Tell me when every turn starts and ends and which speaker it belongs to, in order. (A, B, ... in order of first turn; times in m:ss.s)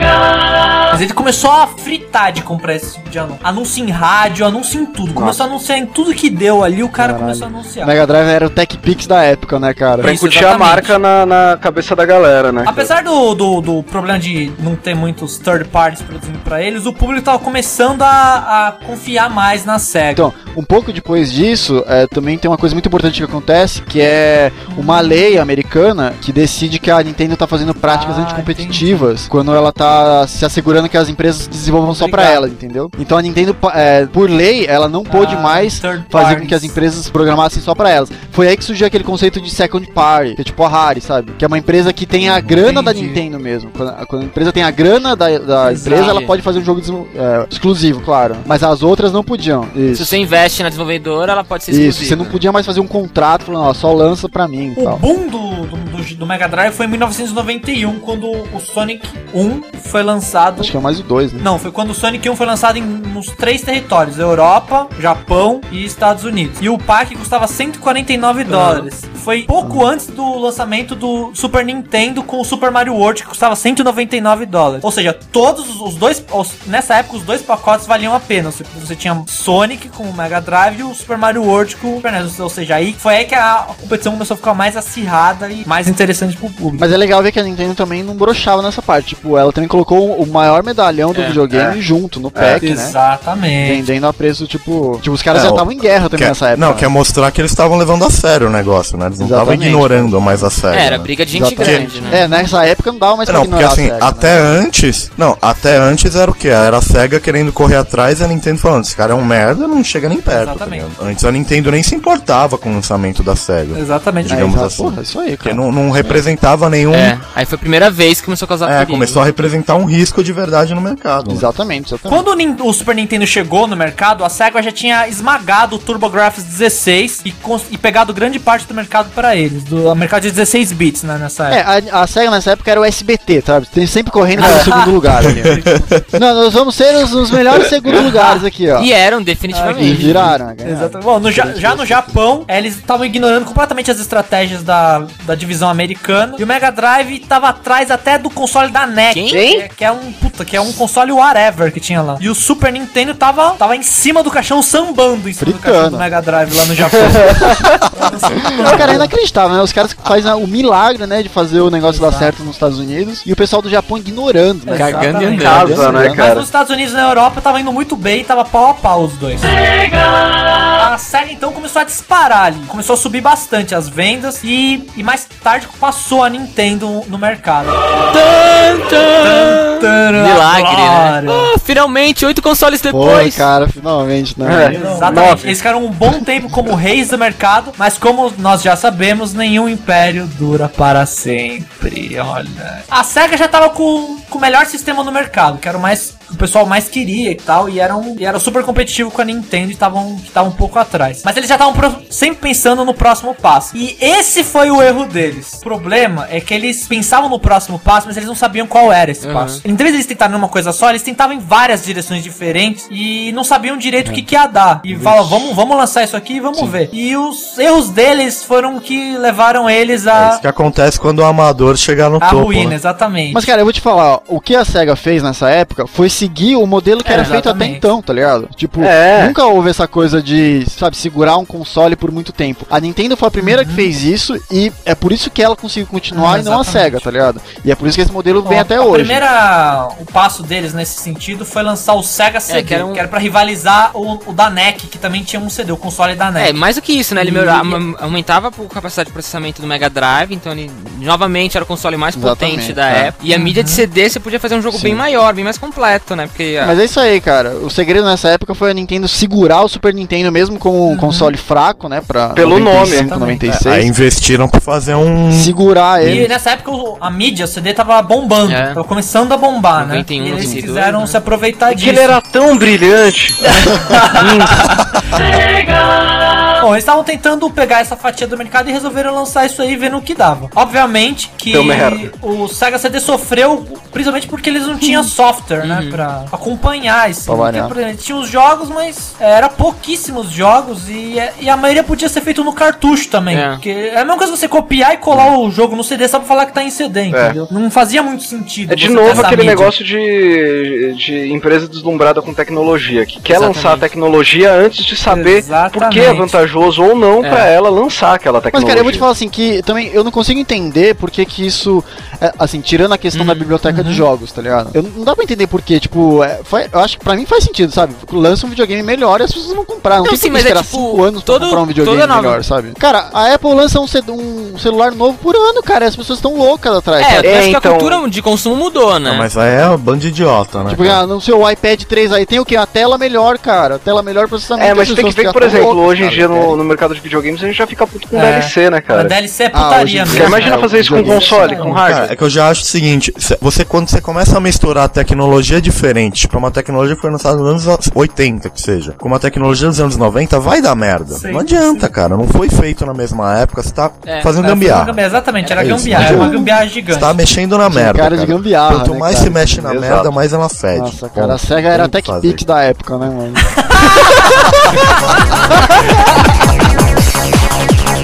0:00.9-0:08.0 A
0:05.2-0:05.4 B
0:07.0-0:10.1 C
0:10.0-0:11.0 A
0:10.0-0:12.9 B
0:12.6-0:20.3 A
0:20.1-0:50.2 C
0:24.7-0:25.4 A
0:27.9-0:29.1 A
0:31.9-0:32.4 A
0:35.1-0:36.8 A
0:42.5-0:43.2 A
0:45.6-0:46.2 A
0:46.0-0:46.3 D
0:49.9-0:52.4 D
0:51.7-0:55.0 C
0:54.8-1:00.7 A
1:00.6-1:01.5 C
1:01.4-1:26.9 A
1:08.5-1:08.9 D
1:09.6-1:09.9 C
1:26.8-1:33.0 C
1:31.1-1:31.4 D
1:31.5-1:31.8 B
1:32.4-1:32.6 B
1:32.6-1:33.8 A
1:33.6-1:36.9 C
1:35.3-1:42.0 E
1:39.2-1:40.5 C
1:40.7-1:42.2 D
1:41.3-1:44.6 C
1:42.0-1:42.5 A
1:43.3-1:57.2 E
1:50.3-1:50.9 A
1:53.7-1:54.5 A
1:54.3-1:55.6 C
1:56.9-1:59.2 D
1:58.7-2:01.5 E
2:01.3-2:02.3 C
2:02.1-2:11.6 A
2:11.5-2:15.6 C
2:14.4-2:15.8 A
2:15.2-2:16.0 E
2:16.1-2:18.9 C
2:18.1-2:20.4 D
2:19.5-2:39.0 A
2:19.8-2:22.2 C
2:29.1-2:29.6 D
2:29.3-2:29.7 B
2:35.4-2:36.1 C
2:36.8-2:37.5 B
2:37.0-2:37.3 C
2:38.6-2:46.3 C
2:41.9-2:42.3 A
2:44.7-2:49.5 A
2:44.7-2:45.9 D
2:45.4-2:46.5 B
2:50.8-2:57.8 A
2:58.1-3:03.5 D
2:59.2-3:01.5 A
3:02.9-3:05.3 C
3:04.4-3:05.5 B
3:04.7-3:40.4 A
3:29.2-3:29.6 D
3:34.0-3:34.3 C
3:34.9-3:35.5 C
3:36.5-3:36.8 C
3:40.1-3:42.8 E
3:42.2-3:43.5 A
3:43.3-3:59.2 C
3:47.0-3:47.4 D
3:47.1-3:47.8 A
3:48.8-3:49.4 B
3:53.4-3:53.9 A
3:56.1-3:57.1 A
3:58.4-4:06.6 A
4:02.5-4:03.0 D
4:06.4-4:16.8 D
4:07.2-4:07.8 C
4:07.3-4:07.6 A
4:12.1-4:13.1 C
4:13.3-4:13.8 A
4:14.7-4:15.0 C
4:16.6-4:23.9 C
4:20.9-4:21.3 A
4:22.3-4:23.1 B
4:22.8-4:23.4 A
4:23.5-4:26.2 E
4:25.3-4:26.3 C
4:26.0-4:32.2 A
4:28.5-4:28.8 D
4:29.8-4:31.2 D
4:31.7-4:34.7 B
4:33.4-4:34.8 A
4:36.6-4:59.7 A
4:41.5-4:42.1 B
4:44.8-4:45.1 C
4:45.6-4:46.0 D
4:47.3-4:47.8 C
4:53.3-4:53.6 D
4:57.1-4:57.4 B
4:58.7-5:09.0 B
4:59.0-4:59.7 D
5:03.3-5:03.9 D
5:05.1-5:06.3 A
5:07.2-5:07.5 D
5:08.5-5:27.5 C
5:13.1-5:13.5 D
5:13.7-5:14.1 A
5:20.0-5:22.4 D
5:27.0-5:29.3 D
5:27.2-5:28.0 B
5:29.0-5:31.0 E
5:30.7-5:36.6 C
5:34.6-5:39.2 B
5:38.1-5:41.8 A
5:39.5-5:41.8 C
5:40.1-5:42.1 B
5:41.8-5:55.0 E
5:51.1-5:51.9 A
5:54.1-5:54.3 D
5:54.4-5:57.2 A
5:55.4-5:56.3 D
5:55.6-5:56.4 E
5:56.0-5:56.3 C
5:56.9-6:02.4 E
5:57.7-5:59.8 C
5:59.6-6:00.1 B
6:00.7-6:03.6 C